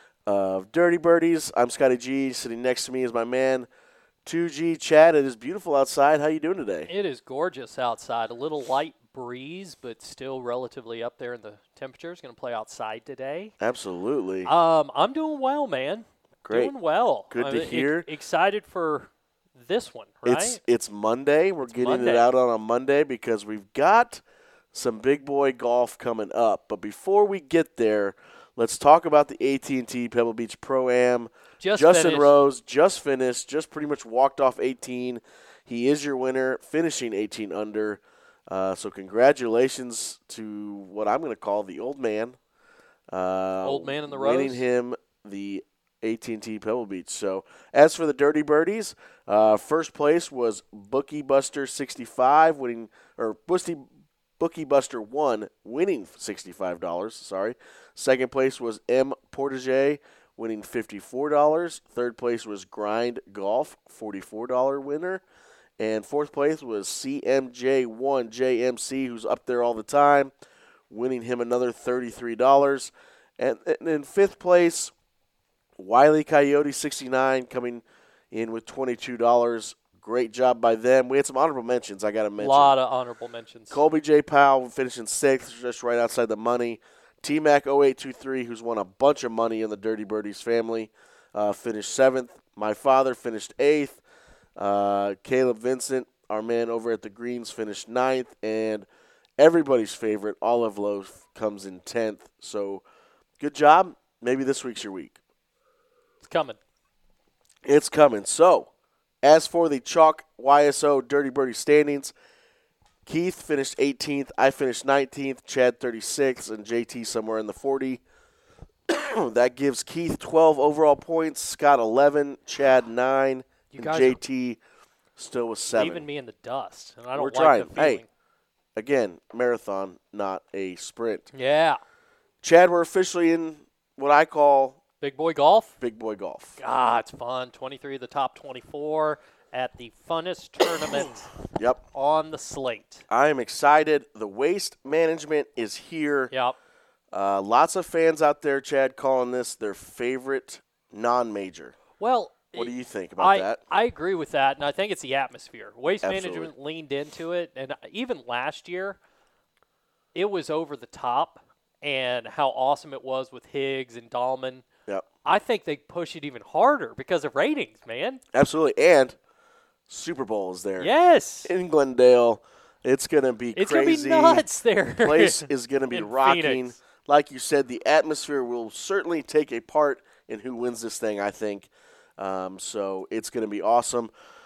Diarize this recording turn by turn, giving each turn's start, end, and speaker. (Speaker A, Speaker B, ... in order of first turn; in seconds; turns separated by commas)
Speaker A: 0.3-3.7, Speaker A: 4.2-6.9, Speaker B: 6.9-13.5, Speaker A: 13.6-14.5, Speaker B: 14.5-20.6, Speaker A: 16.4-16.7, Speaker A: 17.3-18.1, Speaker A: 20.2-24.2, Speaker B: 21.6-22.3, Speaker A: 24.7-42.4, Speaker B: 31.6-32.4, Speaker A: 43.1-53.9, Speaker B: 43.6-44.6, Speaker A: 54.4-65.2, Speaker A: 65.8-70.3, Speaker A: 70.9-74.9, Speaker A: 75.8-82.8, Speaker B: 82.4-83.8, Speaker A: 83.7-94.0, Speaker A: 94.6-98.9, Speaker A: 99.4-102.8, Speaker A: 103.4-105.2, Speaker B: 106.2-106.6, Speaker A: 107.7-108.7, Speaker A: 109.2-112.1, Speaker A: 113.1-118.0, Speaker A: 118.9-124.6, Speaker B: 123.7-124.2, Speaker A: 125.2-126.1, Speaker B: 125.7-128.1, Speaker A: 127.1-128.0, Speaker A: 128.8-131.3, Speaker B: 131.3-131.8, Speaker A: 132.4-134.8, Speaker B: 135.0-135.8, Speaker A: 135.8-136.6, Speaker B: 136.6-141.3, Speaker A: 141.5-141.8, Speaker B: 141.9-143.0, Speaker A: 143.1-146.3, Speaker B: 146.3-146.6, Speaker A: 147.1-151.8, Speaker B: 152.0-159.0, Speaker A: 152.5-153.6, Speaker A: 156.0-156.5, Speaker B: 160.2-164.6, Speaker B: 165.2-168.2, Speaker A: 168.3-169.2, Speaker A: 169.9-170.9, Speaker B: 170.8-171.5, Speaker A: 171.4-174.5, Speaker B: 173.6-176.7, Speaker A: 175.0-184.1